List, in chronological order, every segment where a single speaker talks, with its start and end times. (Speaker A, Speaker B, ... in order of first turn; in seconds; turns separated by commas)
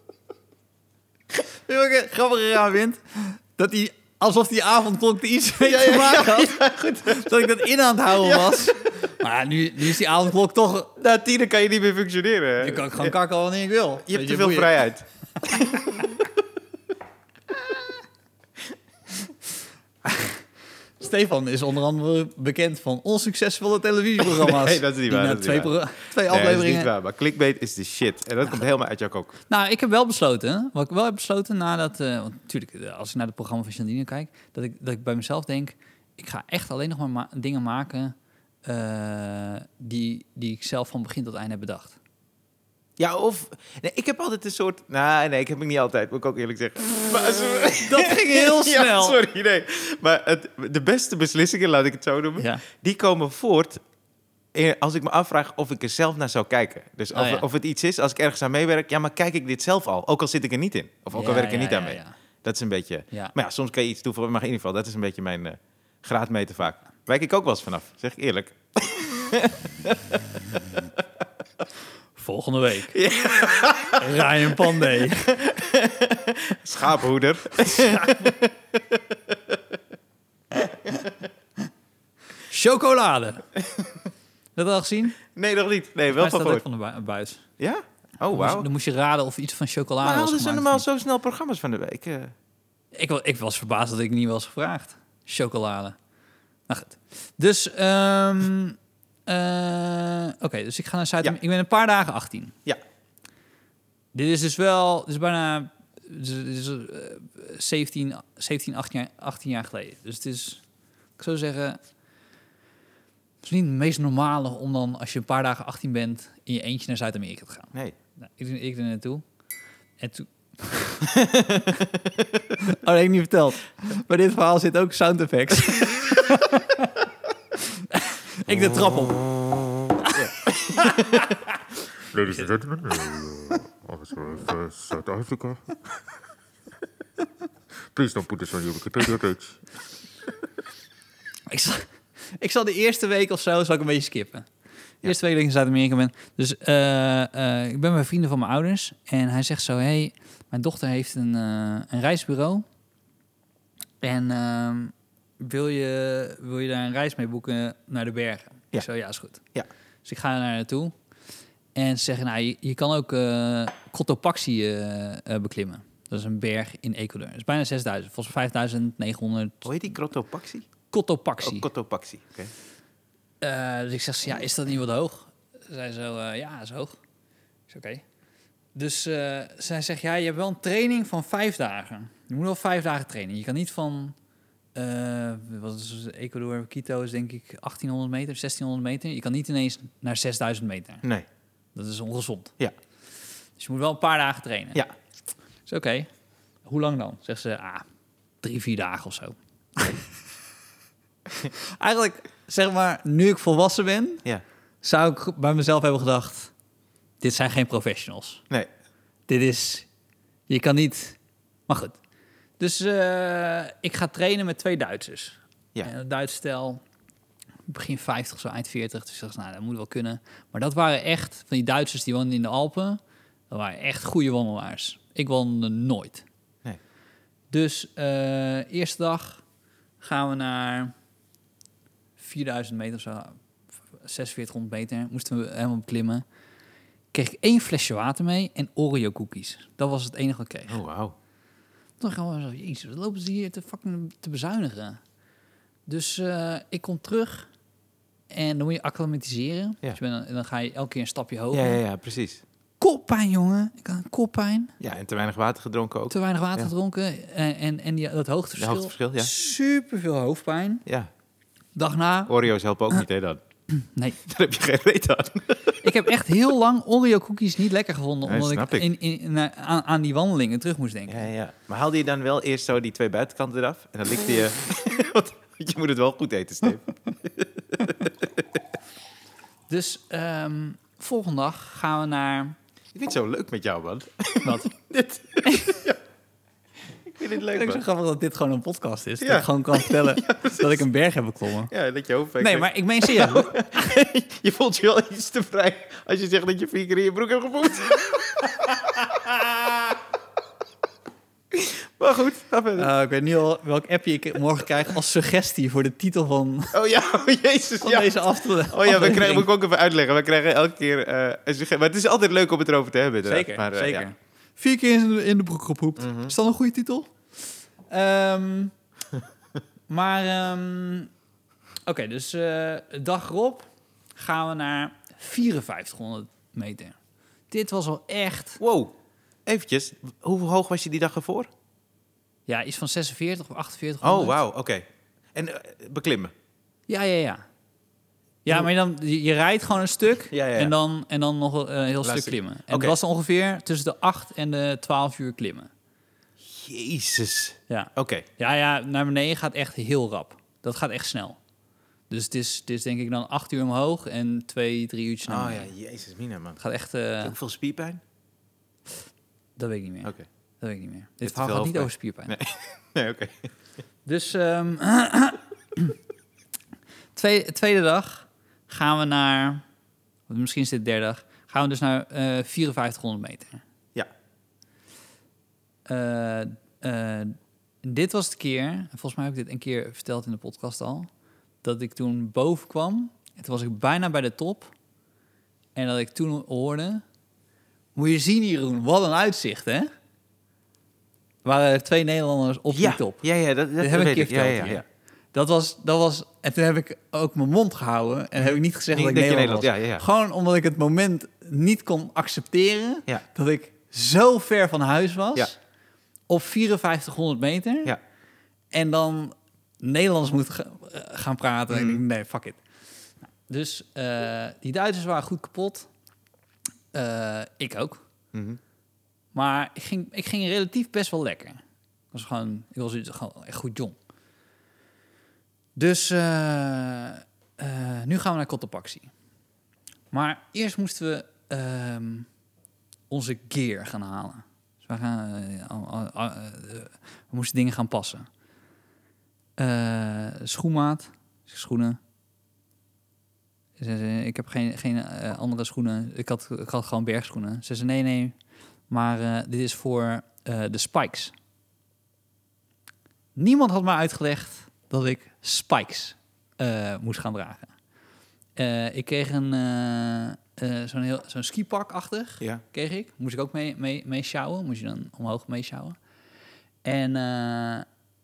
Speaker A: 1.7-10.9, Speaker B: 5.6-7.4, Speaker B: 8.2-8.7, Speaker B: 11.0-13.1, Speaker A: 12.6-14.8, Speaker B: 14.1-16.2, Speaker A: 20.1-20.4, Speaker A: 21.0-26.9, Speaker B: 24.2-29.3, Speaker A: 29.5-38.1, Speaker A: 38.6-42.0, Speaker B: 43.0-53.8, Speaker A: 47.8-49.2, Speaker A: 52.4-52.6, Speaker B: 54.5-70.8, Speaker A: 57.1-57.5, Speaker A: 61.1-62.1, Speaker A: 72.2-73.0, Speaker B: 72.9-79.6, Speaker A: 74.0-75.4, Speaker A: 77.7-78.3, Speaker A: 80.6-80.9, Speaker B: 80.6-81.1, Speaker A: 82.5-83.5, Speaker B: 83.6-84.0, Speaker A: 84.6-85.2, Speaker B: 85.3-86.6, Speaker A: 86.1-87.4, Speaker B: 87.6-88.7, Speaker A: 88.3-90.8, Speaker B: 90.0-92.3, Speaker A: 92.9-96.0, Speaker A: 96.7-102.6, Speaker A: 104.1-110.6, Speaker A: 111.2-111.8, Speaker A: 113.4-119.2, Speaker A: 120.0-121.1, Speaker B: 121.1-122.5, Speaker A: 122.6-131.5, Speaker B: 130.1-131.3, Speaker C: 132.3-135.7, Speaker C: 138.0-139.4, Speaker B: 138.0-139.4, Speaker A: 141.5-141.9, Speaker A: 142.4-144.5, Speaker A: 145.0-152.7, Speaker A: 154.0-159.4, Speaker A: 160.1-160.9, Speaker A: 161.8-169.7, Speaker B: 169.6-170.7, Speaker A: 170.9-171.7, Speaker B: 171.4-172.5, Speaker A: 173.4-177.0, Speaker A: 177.7-178.0, Speaker A: 178.8-184.2, Speaker A: 184.8-191.0, Speaker A: 191.8-192.5, Speaker A: 193.6-194.8, Speaker A: 195.7-196.1, Speaker A: 196.7-197.9, Speaker A: 198.4-200.1, Speaker A: 201.3-204.2, Speaker A: 204.8-206.5, Speaker A: 207.2-208.4, Speaker A: 209.3-209.9, Speaker A: 210.5-212.0, Speaker A: 212.6-216.8, Speaker A: 217.7-223.0, Speaker A: 223.5-226.2, Speaker A: 227.5-229.4, Speaker A: 230.0-230.9, Speaker A: 232.2-233.4, Speaker A: 234.0-236.2, Speaker A: 237.1-240.8, Speaker B: 240.7-241.2, Speaker A: 242.0-245.0, Speaker A: 245.9-247.5, Speaker A: 248.3-251.8, Speaker B: 251.5-252.4, Speaker A: 252.8-254.8, Speaker B: 254.8-256.7, Speaker A: 256.1-260.8, Speaker B: 258.6-259.3, Speaker A: 261.8-262.4, Speaker B: 262.3-263.4, Speaker A: 263.7-264.2, Speaker B: 264.2-265.8, Speaker A: 265.8-271.3, Speaker B: 268.2-268.9, Speaker B: 271.1-278.6, Speaker A: 279.7-282.6, Speaker B: 282.9-286.0, Speaker A: 284.4-284.7, Speaker A: 285.4-285.8, Speaker B: 287.1-287.8, Speaker A: 287.3-291.7, Speaker B: 289.2-290.9, Speaker B: 291.7-299.5, Speaker A: 292.4-293.8, Speaker B: 301.5-302.9, Speaker A: 302.8-306.8, Speaker B: 306.7-314.1, Speaker A: 307.8-309.5, Speaker A: 313.2-317.1, Speaker B: 316.0-316.3, Speaker A: 317.9-318.7, Speaker A: 319.9-321.1, Speaker A: 321.9-327.0, Speaker A: 327.5-328.6, Speaker B: 328.6-328.9, Speaker B: 329.5-331.5, Speaker A: 332.5-334.4, Speaker B: 334.0-336.3, Speaker A: 336.9-337.4, Speaker A: 338.4-345.7, Speaker B: 340.3-340.7, Speaker B: 342.0-343.0, Speaker B: 346.4-348.3, Speaker A: 347.7-351.4, Speaker A: 352.1-355.7, Speaker B: 355.3-356.6, Speaker A: 356.6-357.4, Speaker B: 357.2-358.0, Speaker A: 359.6-362.4, Speaker B: 361.2-363.5, Speaker A: 364.1-366.0, Speaker A: 367.2-369.6, Speaker A: 370.3-373.6, Speaker A: 375.9-381.1, Speaker A: 381.6-384.7, Speaker A: 385.8-387.0, Speaker A: 387.9-389.9, Speaker A: 391.4-393.2, Speaker B: 392.7-394.8, Speaker A: 393.8-405.6, Speaker B: 398.4-400.0, Speaker A: 406.3-407.9, Speaker A: 408.7-412.6, Speaker B: 411.7-412.0, Speaker A: 413.5-415.9, Speaker A: 416.9-418.0, Speaker B: 418.3-418.6, Speaker A: 419.4-421.6, Speaker A: 422.1-424.0, Speaker A: 425.8-429.1, Speaker A: 430.1-432.3, Speaker A: 433.1-438.3, Speaker A: 439.6-442.0, Speaker A: 443.8-448.4, Speaker A: 448.9-451.3, Speaker A: 453.4-457.7, Speaker A: 458.6-466.0, Speaker A: 466.8-467.9